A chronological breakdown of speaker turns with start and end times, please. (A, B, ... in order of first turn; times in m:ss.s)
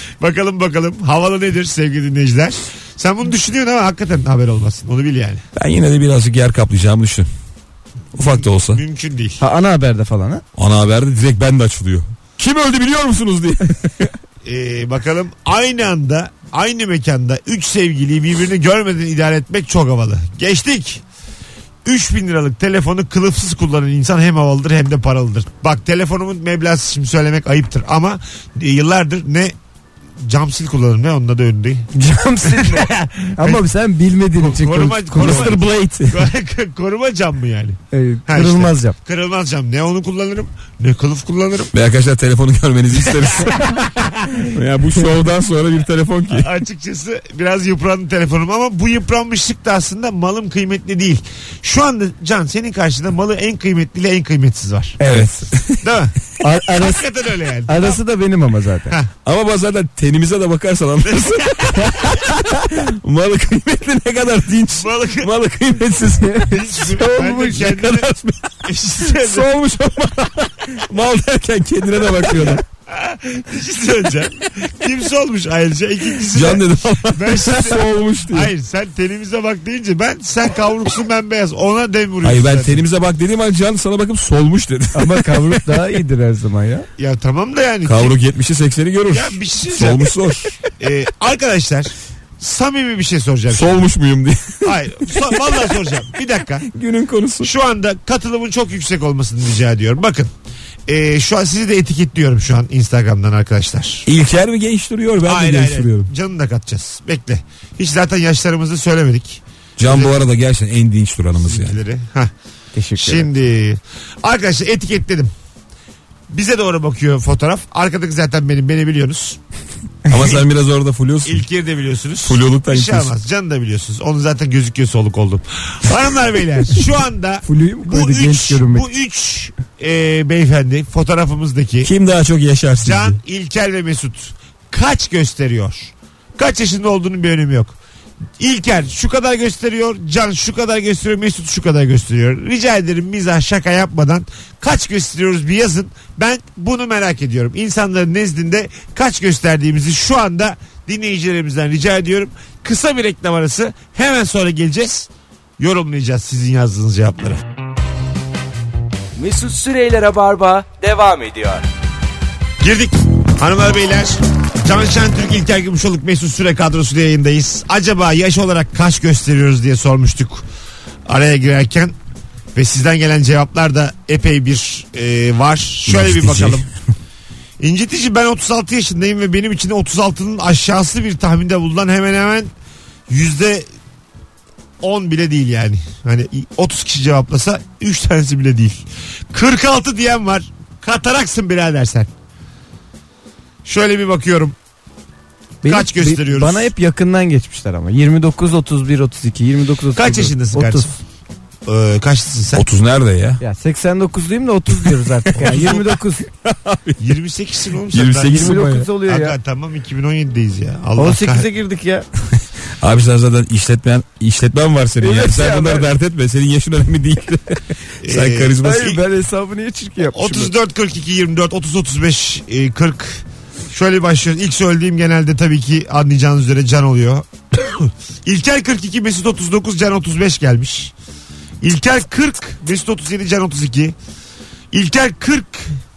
0:00.2-0:05.4 A
0:05.6-0:07.3 B
0:08.1-0:08.8 B
0:08.4-0:09.4 A
0:09.4-0:10.4 C
0:10.6-0:14.0 B
0:14.4-0:21.0 A
0:21.8-0:29.5 A
0:30.2-0:31.9 A
0:31.9-0:35.6 C
0:32.5-0:33.6 A
0:34.4-0:41.7 A
0:35.2-0:36.3 B
0:37.9-0:39.0 C
0:41.7-0:43.8 B
0:43.1-0:44.4 A
0:44.4-0:46.5 B
0:46.3-0:55.0 A
0:55.0-0:55.5 C
0:55.0-0:55.9 B
0:55.8-0:56.2 A
0:56.4-0:57.0 C
0:56.8-0:58.0 A
0:57.7-0:59.0 C
0:59.2-1:06.4 B
1:01.1-1:02.0 A
1:02.3-1:02.6 C
1:04.8-1:05.3 A
1:06.0-1:07.8 C
1:06.5-1:08.1 A
1:07.4-1:12.6 B
1:08.6-1:09.5 A
1:12.4-1:22.8 A
1:16.3-1:18.5 B
1:22.2-1:25.8 B
1:25.0-1:26.9 C
1:27.0-1:28.2 A
1:27.8-1:30.5 B
1:29.1-1:30.1 A
1:30.8-1:33.8 A
1:33.5-1:35.7 B
1:34.6-1:36.7 A
1:36.7-1:37.5 B
1:37.4-1:40.3 A
1:40.9-1:44.1 A
1:44.1-1:46.1 B
1:45.2-1:50.3 A
1:49.8-1:51.8 B
1:51.4-1:52.3 A
1:52.8-1:53.3 C
1:53.0-1:55.3 A
1:56.3-1:59.4 A
2:00.1-2:01.4 B
2:01.2-2:11.9 A
2:02.2-2:03.1 B
2:07.4-2:08.9 C
2:11.8-2:13.2 B
2:12.8-2:17.8 A
2:18.4-2:37.4 A
2:39.2-2:41.6 D
2:42.6-2:50.4 A
2:51.1-2:51.9 A
2:52.6-2:56.6 A
2:55.9-2:56.6 B
2:57.6-3:02.5 A
3:03.1-3:03.7 A
3:04.8-3:12.1 A
3:13.6-3:14.6 A
3:15.6-3:20.9 C
3:15.6-3:16.7 A
3:20.0-3:20.9 A
3:21.7-3:22.6 A
3:22.6-3:23.4 B
3:23.4-3:26.3 C
3:25.4-3:27.0 B
3:25.4-3:25.8 A
3:27.0-3:31.5 A
3:27.9-3:28.9 B
3:28.2-3:29.4 C
3:31.0-3:32.1 C
3:32.8-3:39.0 B
3:35.0-3:35.9 C
3:38.0-3:39.0 A
3:38.6-3:40.5 C
3:40.1-3:50.9 A
3:51.6-3:54.0 A
3:54.7-3:55.8 A